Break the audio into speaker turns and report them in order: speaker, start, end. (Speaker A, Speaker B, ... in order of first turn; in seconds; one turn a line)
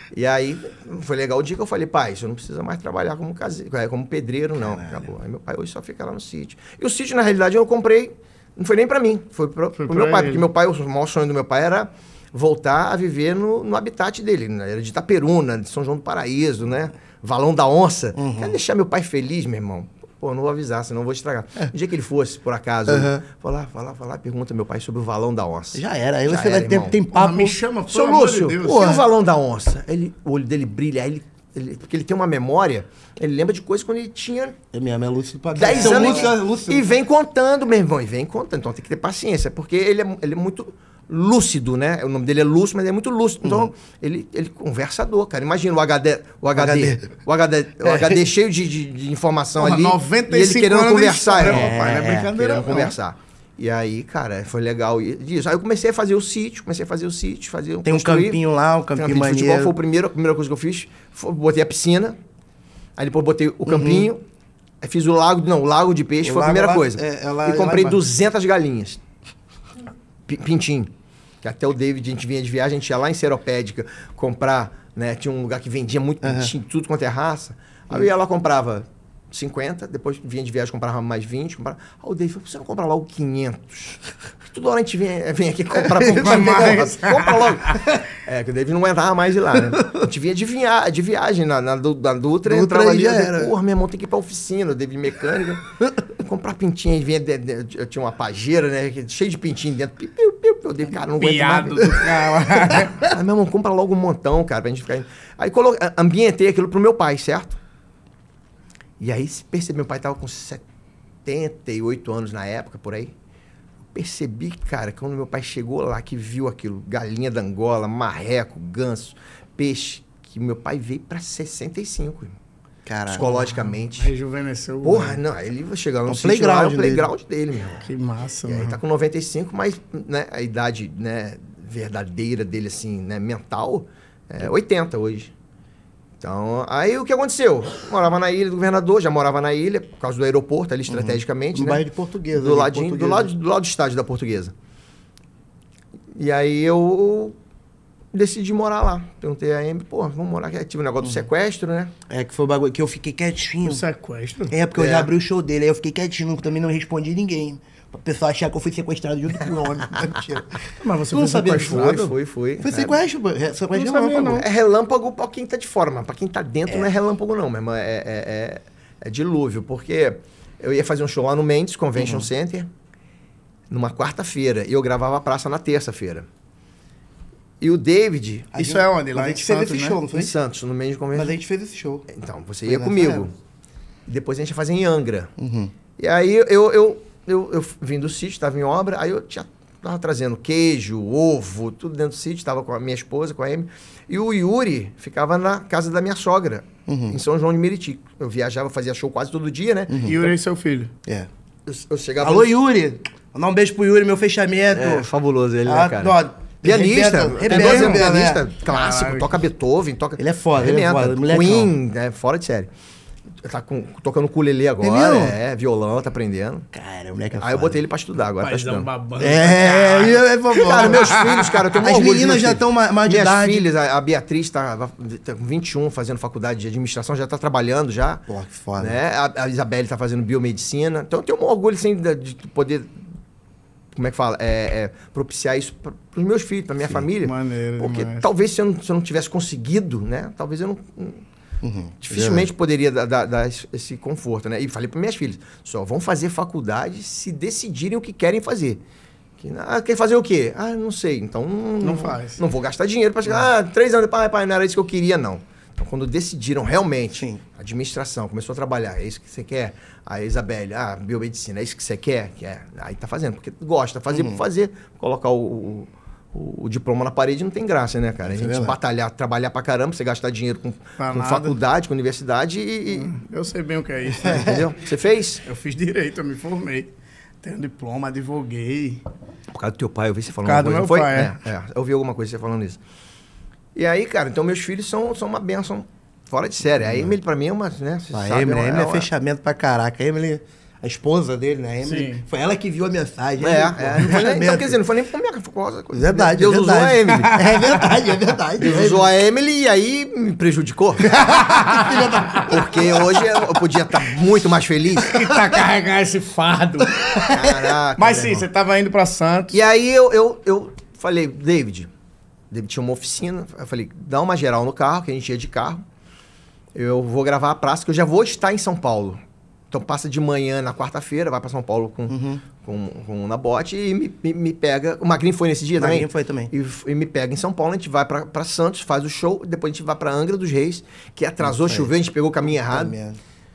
Speaker A: 0.1-27.0
Speaker B: 4.6-5.0
Speaker C: 9.8-10.4
Speaker B: 18.1-18.5
Speaker B: 22.9-23.2
Speaker B: 25.7-27.6
Speaker C: 27.1-29.0
Speaker A: 27.9-34.6
Speaker B: 34.7-36.9
Speaker A: 35.5-58.4
Speaker C: 35.6-36.1
Speaker B: 46.5-47.1
Speaker B: 47.8-48.2
Speaker C: 49.6-52.9
Speaker B: 51.4-52.9
Speaker B: 57.8-59.8
Speaker A: 58.9-62.1
Speaker A: 63.0-64.2
Speaker B: 63.6-64.1
Speaker A: 64.8-69.0
Speaker B: 66.2-68.1
Speaker A: 70.3-70.9
Speaker A: 71.4-95.6
Speaker B: 76.2-76.5
Speaker B: 85.9-86.8
Speaker C: 86.0-87.8
Speaker B: 92.4-93.5
Speaker A: 96.2-102.4
Speaker C: 101.1-103.0
Speaker A: 103.0-107.6
Speaker A: 109.0-110.6
Speaker A: 111.2-113.1
Speaker A: 113.9-122.4
Speaker B: 122.8-123.6
Speaker A: 123.1-124.1
Speaker C: 124.0-125.2
Speaker A: 124.8-127.9
Speaker B: 126.0-127.1
Speaker C: 127.8-128.8
Speaker A: 128.4-135.3
Speaker A: 136.2-144.5
Speaker B: 140.9-143.3
Speaker A: 146.1-147.3
Speaker A: 148.1-151.9
Speaker B: 152.1-153.8
Speaker C: 153.6-154.5
Speaker B: 154.5-164.4
Speaker A: 154.7-155.1
Speaker C: 160.8-162.1
Speaker A: 161.3-163.0
Speaker C: 163.7-164.4
Speaker A: 164.4-172.7
Speaker B: 172.0-172.3
Speaker A: 173.7-176.3
Speaker A: 177.6-178.5
Speaker B: 178.5-180.3
Speaker C: 178.6-180.0
Speaker A: 180.1-181.3
Speaker B: 181.1-182.1
Speaker A: 182.1-183.3
Speaker B: 182.7-183.3
Speaker A: 184.1-185.3
Speaker B: 185.4-185.7
Speaker A: 186.0-200.2
Speaker B: 196.9-197.2
Speaker B: 199.9-200.1
Speaker C: 200.0-200.9
Speaker A: 201.7-202.6
Speaker B: 202.2-205.1
Speaker A: 204.7-212.7
Speaker B: 205.7-208.4
Speaker C: 207.4-208.1
Speaker C: 208.7-209.4
Speaker B: 210.2-211.7
Speaker A: 213.4-216.7
Speaker B: 214.8-215.3
Speaker B: 216.7-217.8
Speaker A: 217.4-228.2
Speaker C: 218.4-221.6
Speaker B: 219.8-221.1
Speaker B: 221.8-223.7
Speaker B: 228.3-229.0
Speaker A: 228.8-233.0
Speaker A: 233.9-241.2
Speaker C: 237.2-238.2
Speaker B: 241.6-242.5
Speaker A: 242.0-248.8
Speaker A: 249.4-273.1
Speaker C: 251.8-252.4
Speaker B: 264.1-264.4
Speaker B: 268.2-268.8
Speaker C: 271.0-271.5
Speaker C: 272.9-274.6
Speaker A: 274.3-275.4
Speaker C: 275.4-276.9
Speaker C: 277.4-279.0
Speaker A: 279.5-282.8
Speaker C: 280.4-281.4
Speaker A: 283.7-289.1
Speaker B: 286.8-287.1
Speaker B: 288.1-294.8
Speaker C: 291.8-292.2
Speaker A: 293.4-297.3
Speaker B: 295.9-299.1
Speaker C: 297.1-297.8
Speaker A: 298.6-301.1
Speaker B: 301.0-302.7
Speaker C: 301.4-302.4
Speaker A: 302.5-305.2
Speaker C: 305.0-307.3
Speaker B: 307.0-307.5
Speaker A: 307.3-308.5
Speaker C: 307.9-309.6
Speaker A: 309.5-311.9
Speaker A: 312.5-315.8
Speaker A: 316.7-319.2
Speaker A: 319.7-332.9
Speaker B: 322.1-322.4
Speaker B: 325.8-326.5
Speaker B: 331.4-331.9
Speaker B: 332.5-333.2